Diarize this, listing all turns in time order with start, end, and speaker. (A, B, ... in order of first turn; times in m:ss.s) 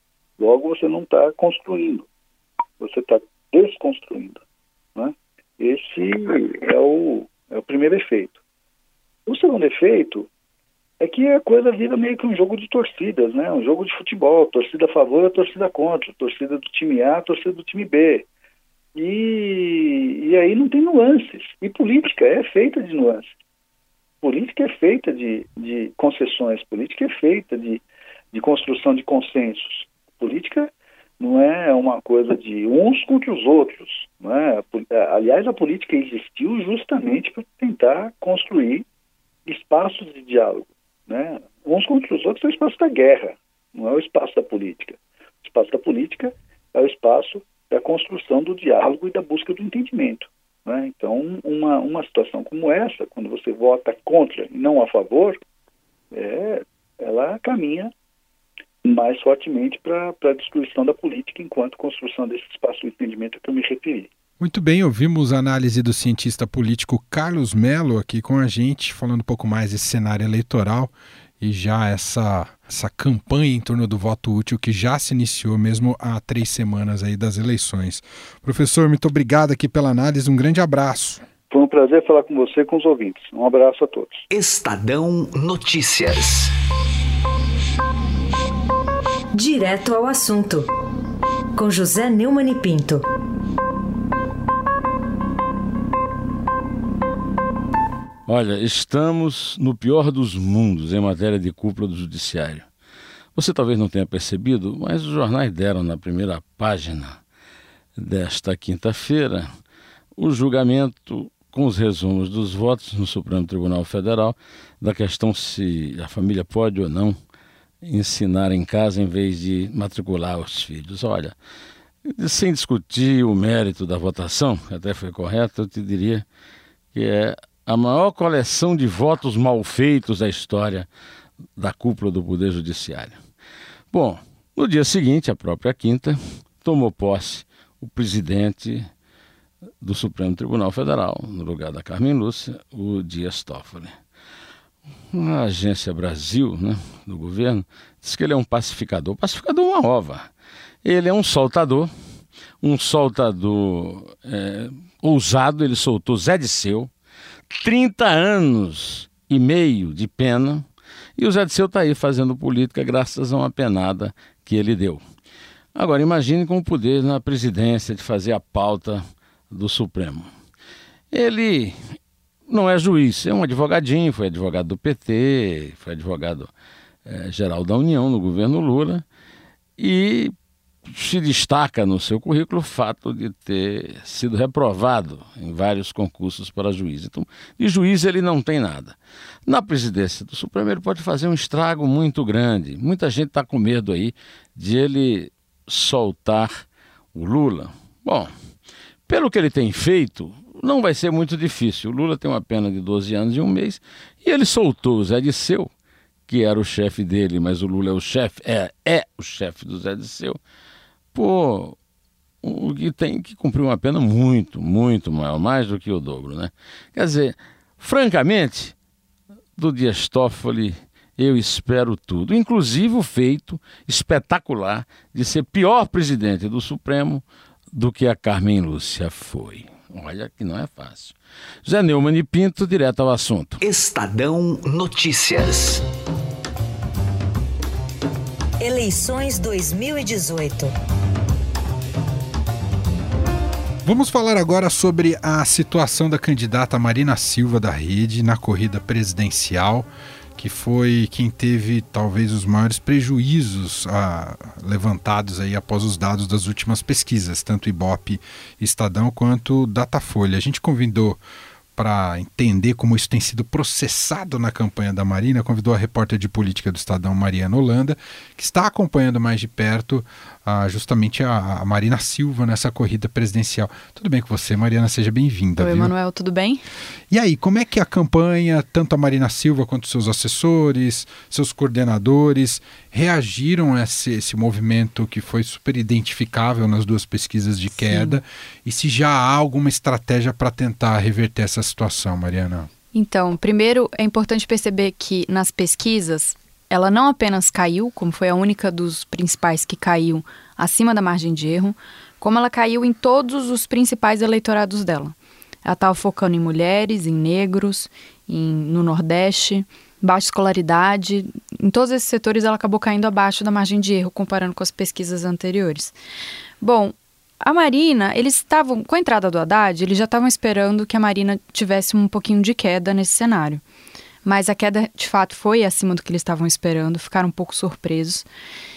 0:00.4-0:02.1 A
0:02.8-0:04.4 A
0:05.0-0:08.4 A
0:09.3-0:10.3 A
0:11.0-0:18.2 A
0:18.9-0:23.3 A
0:24.2-0:38.8 A
0:39.4-0:55.4 A
0:56.1-0:57.9 A
0:58.8-1:04.1 A
1:04.4-1:21.2 B
1:21.5-1:24.2 A
1:24.3-1:26.5 C
1:29.4-1:30.6 D
1:31.6-1:33.0 D
1:38.3-1:42.6 E
1:43.3-1:47.2 E
1:48.0-1:49.5 E
1:50.2-1:57.2 E
1:57.8-2:01.3 E
2:02.0-2:06.2 E
2:06.9-2:10.9 E
2:11.6-2:13.2 E
2:13.9-2:18.9 E
2:19.8-2:24.0 E
2:25.1-2:30.3 E
2:30.8-2:31.9 E
2:32.6-2:36.9 E
2:37.5-2:40.6 E
2:41.2-2:45.0 E
2:45.7-2:50.3 E
2:51.1-2:52.0 E
2:52.5-2:56.5 E
2:57.0-2:59.0 E
2:59.8-3:00.3 E
3:00.9-3:18.3 E
3:19.1-3:25.7 E
3:26.3-3:30.4 E
3:31.1-3:31.8 E
3:32.4-3:38.7 E
3:39.6-3:53.6 E
3:53.6-3:55.8 C
3:58.6-4:00.7 D
4:03.8-4:21.2 B
4:21.8-4:35.9 B
4:35.6-4:36.6 F
4:37.1-4:52.7 B
4:47.8-4:48.2 F
4:52.9-5:15.9 F
5:16.6-5:23.6 F
5:24.2-5:28.2 F